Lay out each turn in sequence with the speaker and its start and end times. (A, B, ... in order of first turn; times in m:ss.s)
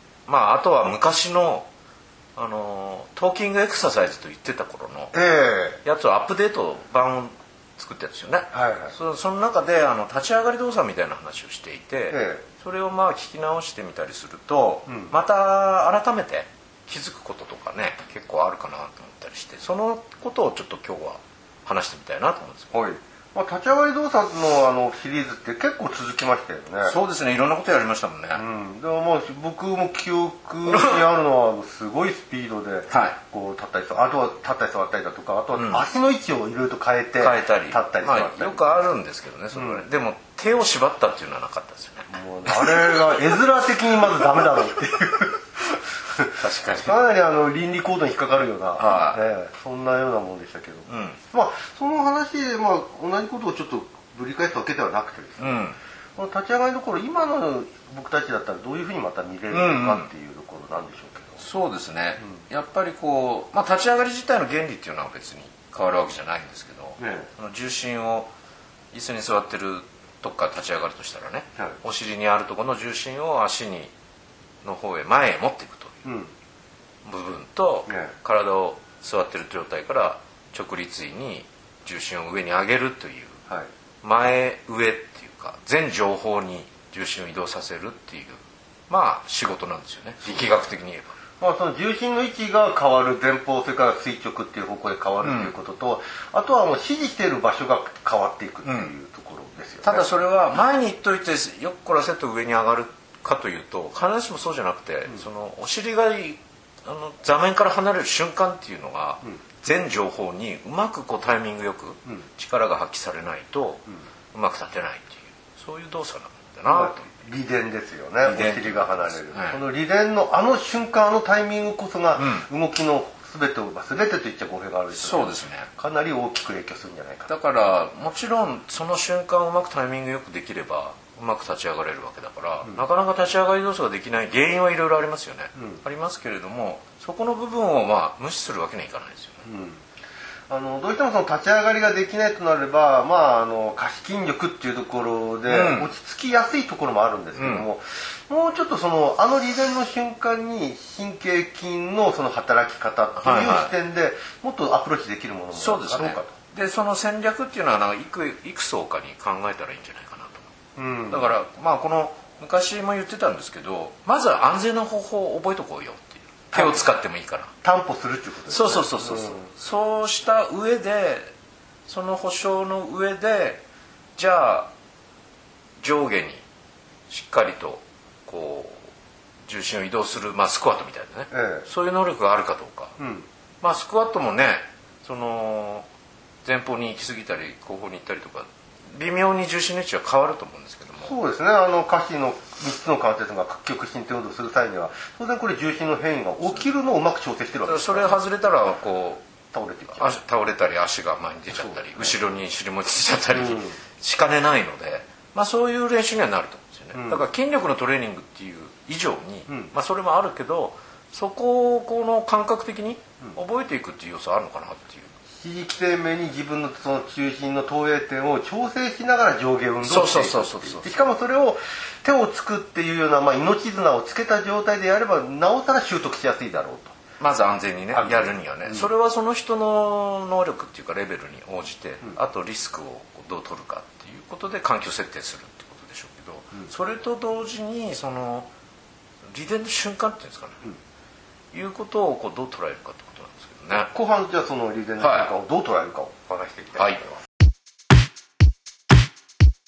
0:00.3-0:01.7 A
0:02.4-0:05.1 A
0:05.1-0:05.8 B
0:05.8-0:22.7 A
0:08.5-0:08.9 B
0:12.1-0:12.4 B
0:14.9-0:15.1 B
0:22.7-0:27.0 B
0:26.8-0:28.4 A
0:28.3-0:38.8 B
0:30.6-0:31.0 A
0:32.9-0:33.2 A
0:35.5-0:35.8 A
0:37.2-0:43.1 A
0:39.5-0:39.8 B
0:42.1-1:01.4 B
0:46.4-0:47.0 A
0:48.8-0:49.2 A
0:50.9-0:51.2 A
0:55.4-0:55.8 A
0:59.5-1:00.1 A
1:01.4-1:08.3 A
1:07.0-1:07.3 B
1:08.9-1:13.9 A
1:14.6-1:16.0 A
1:16.0-1:16.3 B
1:17.0-1:23.3 A
1:17.9-1:18.1 B
1:24.0-1:31.1 A
1:31.4-1:40.1 B
1:35.2-1:35.5 A
1:38.6-1:38.9 A
1:39.8-1:53.8 A
1:54.3-1:57.1 A
1:56.7-2:07.3 B
1:58.2-1:59.6 A
2:02.2-2:02.5 A
2:04.9-2:05.7 A
2:07.3-2:19.4 A
2:15.6-2:15.8 B
2:19.4-2:19.8 B
2:20.5-2:36.3 B
2:25.4-2:25.9 A
2:27.3-2:27.7 A
2:33.2-2:33.7 A
2:35.5-2:40.5 A
2:40.8-2:41.3 B
2:41.1-2:47.5 A
2:46.5-2:46.9 B
2:47.6-2:49.5 B
2:48.5-2:51.3 A
2:51.9-2:53.6 A
2:54.2-2:54.7 A
2:55.8-2:56.4 A
2:57.1-2:58.9 A
2:59.4-3:02.9 A
3:01.3-3:01.7 B
3:03.0-3:03.3 B
3:03.6-3:05.8 A
3:06.4-3:11.1 A
3:11.0-3:18.2 B
3:17.6-3:19.2 A
3:19.5-3:20.2 B
3:19.9-3:35.1 A
3:21.5-3:22.3 B
3:23.3-3:23.8 B
3:26.9-3:27.3 B
3:29.5-3:29.7 B
3:35.3-3:46.9 B
3:39.8-3:41.0 A
3:47.2-3:58.5 A
3:47.9-3:48.9 B
3:59.3-4:00.6 A
4:01.5-4:03.9 A
4:03.9-4:07.1 B
4:05.0-4:05.3 A
4:06.8-4:07.0 A